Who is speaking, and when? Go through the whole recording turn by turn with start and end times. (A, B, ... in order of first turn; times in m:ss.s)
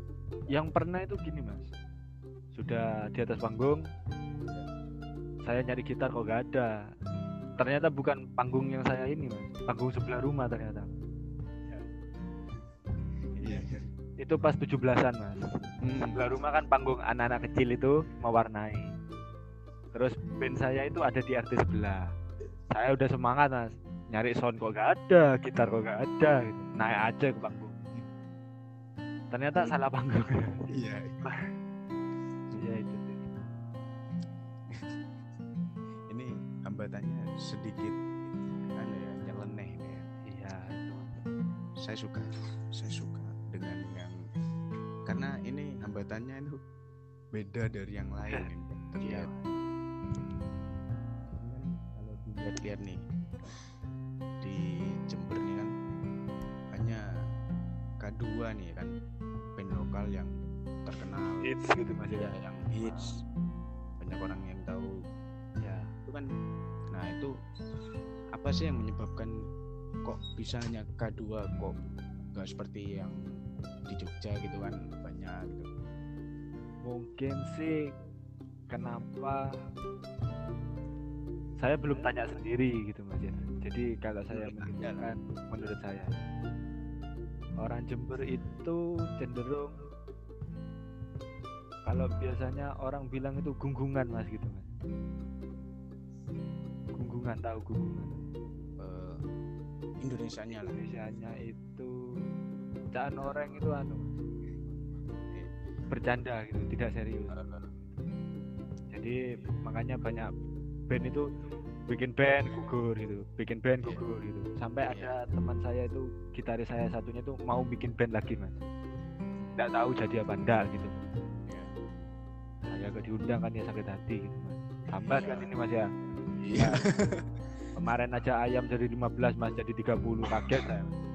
0:00.5-0:01.7 A
0:02.5-0:03.8 A
0:05.4-0:06.7 A
0:07.6-0:10.9 A
0:13.4-0:13.8 B
0:14.2-0:15.4 A
0:15.8-0:16.3 B
0:16.1-0:18.9 A
0:19.9-0:22.0 A
0:22.7-0:27.9 A
0:29.3-0:31.4 A
0:30.7-0:31.2 B
0:32.5-0:33.2 A
0:36.1-0:38.0 B
0:38.8-0:40.0 B
0:40.3-0:41.1 A
0:41.8-0:44.2 B
0:45.0-0:46.6 B
0:47.3-0:49.3 B
0:49.0-0:49.4 A
0:51.5-0:53.0 B
0:54.4-0:55.7 B
0:56.7-0:57.0 B
0:58.0-0:58.9 B
0:59.6-1:01.5 B
1:01.4-1:02.3 A
1:02.1-1:03.2 B
1:04.0-1:04.9 B
1:05.6-1:05.9 A
1:06.9-1:07.3 B
1:08.3-1:09.3 B
1:10.0-1:11.7 B
1:12.3-1:13.2 B
1:13.9-1:15.7 B
1:16.8-1:17.9 A
1:18.7-1:19.4 A
1:21.6-1:26.2 A
1:24.3-1:25.1 B
1:27.6-1:29.8 A
1:31.8-1:34.7 A
1:37.0-1:38.2 A
1:38.8-1:39.2 B
1:40.0-1:40.8 B
1:40.5-1:41.9 A
1:42.9-1:44.1 A
1:45.9-1:47.4 A
1:47.3-1:47.7 B
1:48.9-1:50.3 A
1:50.9-1:51.3 A
1:51.9-1:58.6 A
1:54.9-1:55.1 B
1:59.6-2:01.0 A
2:02.6-2:05.8 A
2:05.1-2:05.5 B
2:06.4-2:07.3 B
2:06.6-2:06.8 A
2:07.7-2:10.9 A
2:10.4-2:10.7 B